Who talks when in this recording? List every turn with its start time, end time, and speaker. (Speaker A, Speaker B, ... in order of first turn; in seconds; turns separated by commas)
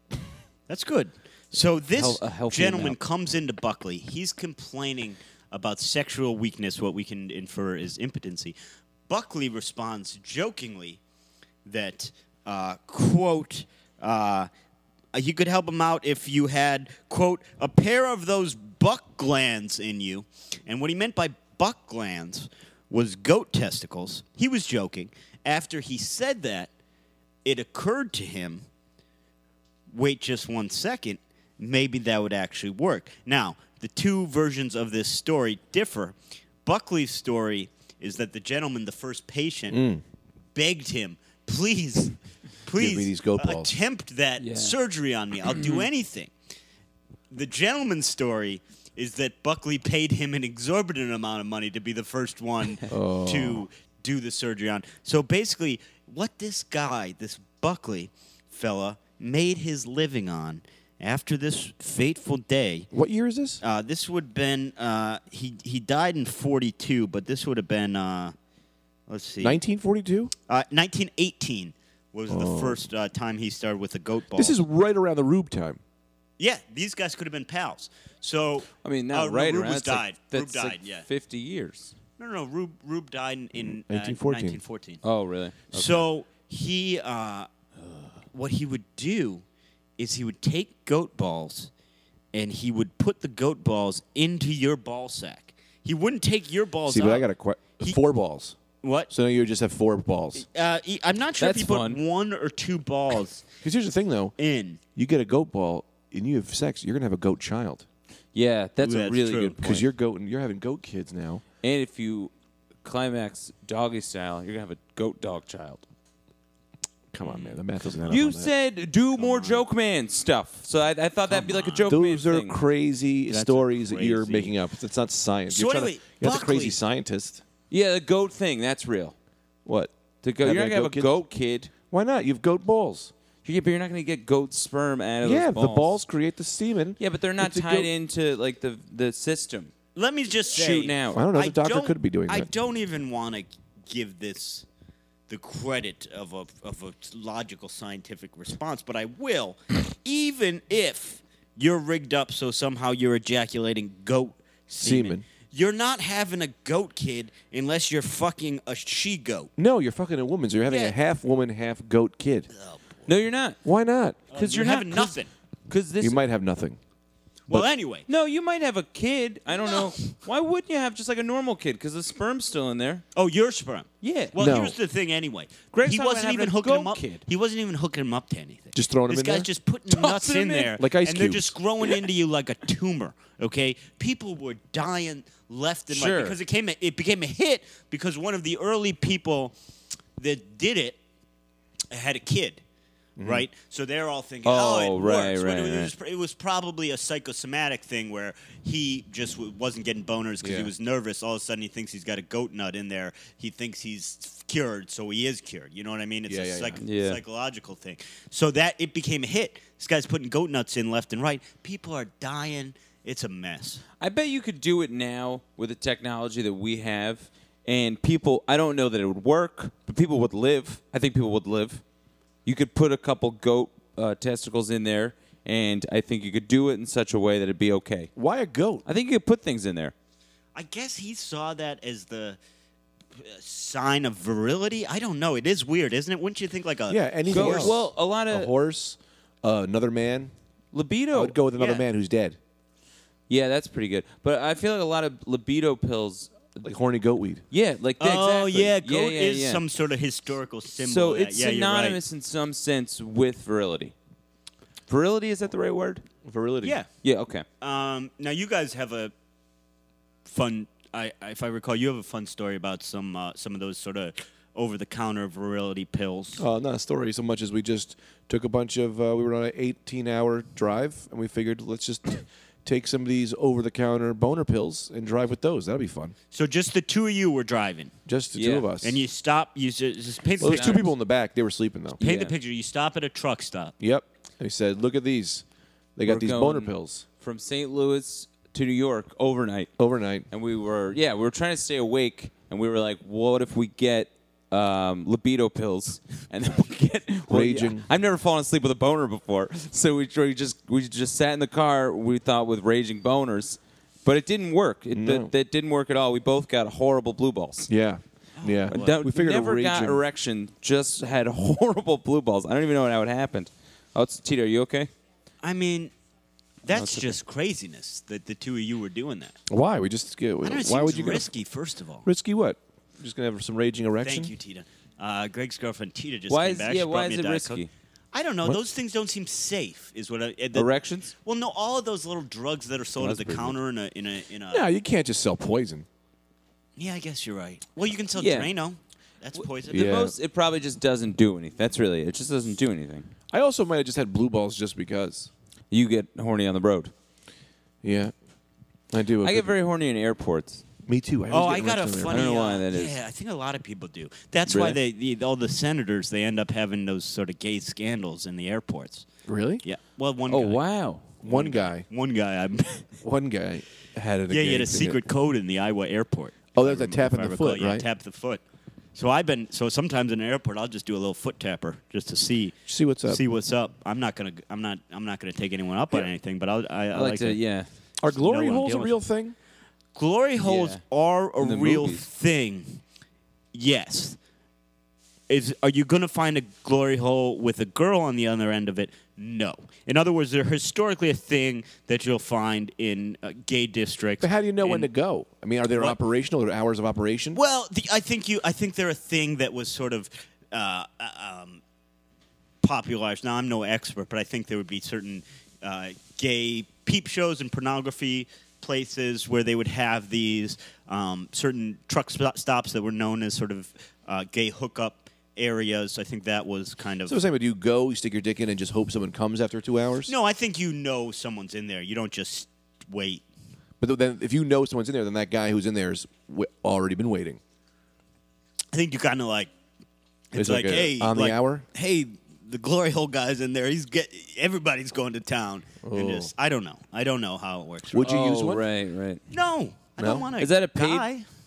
Speaker A: 0.7-8.5, Speaker B: 1.9-3.0, Speaker A: 9.1-11.0, Speaker A: 11.6-14.5, Speaker A: 15.1-26.7, Speaker A: 27.4-28.6, Speaker A: 29.9-39.8, Speaker C: 39.7-40.0, Speaker A: 40.5-46.3, Speaker C: 42.8-43.7, Speaker B: 44.4-44.7, Speaker B: 45.6-45.8, Speaker A: 47.3-62.9, Speaker C: 52.9-53.6, Speaker C: 62.9-63.6, Speaker A: 63.6-68.3, Speaker A: 69.1-69.6, Speaker C: 69.4-70.3, Speaker A: 70.5-74.6, Speaker C: 72.3-72.8, Speaker C: 74.3-75.8, Speaker A: 76.4-81.0, Speaker B: 78.8-81.9, Speaker A: 82.2-85.0, Speaker C: 83.6-84.6, Speaker B: 85.0-86.0, Speaker A: 85.7-87.5, Speaker A: 88.3-89.4, Speaker A: 90.0-91.7, Speaker A: 92.3-98.0, Speaker C: 96.8-98.6, Speaker A: 98.8-99.1, Speaker C: 99.1-100.4, Speaker A: 100.3-103.5, Speaker B: 101.4-102.0, Speaker C: 103.6-104.3, Speaker A: 104.4-104.8, Speaker C: 105.0-107.8, Speaker B: 108.3-109.9, Speaker A: 108.8-109.6, Speaker C: 109.6-111.4, Speaker B: 111.6-112.3, Speaker B: 112.8-115.8, Speaker C: 117.1-118.5, Speaker B: 118.1-122.6, Speaker A: 119.2-119.6, Speaker A: 121.3-121.9, Speaker C: 121.9-127.4, Speaker A: 123.3-124.5, Speaker A: 125.5-126.8, Speaker B: 127.7-129.1, Speaker C: 129.7-131.1, Speaker B: 130.2-131.7, Speaker C: 131.9-133.1, Speaker B: 133.4-136.0, Speaker C: 135.2-137.9, Speaker B: 137.0-139.7, Speaker A: 139.9-144.7, Speaker B: 140.5-141.2, Speaker C: 141.1-142.5, Speaker A: 145.3-159.5, Speaker C: 154.8-155.2, Speaker C: 159.6-162.5, Speaker A: 160.7-160.9, Speaker A: 162.5-163.1, Speaker B: 163.1-163.6, Speaker C: 163.6-164.2, Speaker B: 164.3-165.2, Speaker A: 164.3-165.3, Speaker B: 165.7-166.2, Speaker C: 166.0-166.8, Speaker A: 167.5-168.1, Speaker B: 168.1-173.0, Speaker A: 169.5-170.1, Speaker A: 173.1-189.5, Speaker B: 174.0-174.3, Speaker C: 174.4-174.7, Speaker B: 175.7-177.2, Speaker C: 178.7-179.5, Speaker B: 179.9-180.7, Speaker C: 180.7-181.5, Speaker B: 185.9-186.4, Speaker A: 190.2-191.0, Speaker A: 191.9-192.6, Speaker C: 193.2-193.4, Speaker A: 193.2-213.8, Speaker B: 194.4-195.9, Speaker C: 200.4-200.7, Speaker C: 206.3-206.8, Speaker B: 206.8-207.2, Speaker B: 214.0-221.8, Speaker B: 222.4-228.1, Speaker C: 228.2-228.8, Speaker B: 228.8-229.9, Speaker A: 230.5-232.4, Speaker A: 233.1-237.7, Speaker C: 236.9-240.3, Speaker B: 237.3-238.5, Speaker B: 240.7-241.4, Speaker C: 241.1-242.4, Speaker A: 241.6-241.8, Speaker B: 243.3-246.7, Speaker C: 246.6-247.4, Speaker B: 247.5-249.6, Speaker A: 248.0-252.0, Speaker B: 250.8-253.9, Speaker B: 254.9-256.0, Speaker C: 256.2-256.8, Speaker A: 256.6-256.9, Speaker B: 257.0-257.4, Speaker A: 257.6-259.1, Speaker A: 260.2-266.4, Speaker C: 266.4-276.1, Speaker A: 276.3-277.9, Speaker C: 278.1-279.0, Speaker B: 278.3-278.7, Speaker A: 278.8-280.9, Speaker B: 280.4-280.8, Speaker C: 280.4-282.0, Speaker B: 282.0-282.3, Speaker A: 282.0-283.7, Speaker C: 283.8-285.4, Speaker C: 285.9-287.0, Speaker B: 286.1-289.7, Speaker C: 289.8-290.3, Speaker B: 290.3-307.7, Speaker C: 297.3-297.9, Speaker C: 304.9-305.3, Speaker C: 307.7-310.0, Speaker A: 308.4-309.0, Speaker B: 308.7-314.9, Speaker A: 315.4-315.9, Speaker A: 316.6-319.4, Speaker B: 316.7-317.1, Speaker C: 319.5-321.3, Speaker A: 320.4-322.1, Speaker C: 322.0-324.3, Speaker A: 324.0-330.7, Speaker B: 326.3-327.7, Speaker B: 330.5-331.1, Speaker A: 331.2-334.6, Speaker B: 333.0-333.5, Speaker C: 334.5-335.9, Speaker A: 336.8-340.0, Speaker B: 338.1-338.5, Speaker B: 339.4-343.1, Speaker C: 339.7-340.1, Speaker C: 343.3-345.3, Speaker B: 345.7-346.9, Speaker C: 347.8-348.1, Speaker C: 348.9-349.5, Speaker B: 349.2-350.6, Speaker C: 350.9-352.3, Speaker A: 351.3-359.1, Speaker B: 352.1-353.0, Speaker B: 354.5-354.8, Speaker C: 359.2-359.6, Speaker A: 359.6-360.6, Speaker B: 360.3-361.1, Speaker C: 361.2-361.9, Speaker A: 361.2-362.9, Speaker C: 363.0-365.0, Speaker A: 364.3-368.4, Speaker C: 366.5-367.9, Speaker A: 368.9-372.6, Speaker C: 372.6-373.2, Speaker A: 373.1-377.4, Speaker B: 376.9-377.7, Speaker C: 378.0-379.4, Speaker A: 378.1-379.0, Speaker A: 379.9-382.8, Speaker B: 380.4-380.8, Speaker B: 381.4-382.0, Speaker A: 383.5-384.2, Speaker A: 385.3-394.9, Speaker C: 394.2-397.4, Speaker A: 395.7-396.0, Speaker A: 397.3-401.6, Speaker A: 402.6-417.2, Speaker C: 417.1-420.1, Speaker A: 420.1-423.2, Speaker C: 423.8-427.4, Speaker A: 428.7-429.5, Speaker A: 430.3-438.2, Speaker C: 430.3-431.6, Speaker C: 435.8-436.3, Speaker C: 437.9-438.6, Speaker B: 438.0-439.2, Speaker A: 439.3-441.2, Speaker C: 440.0-440.3, Speaker B: 440.4-441.1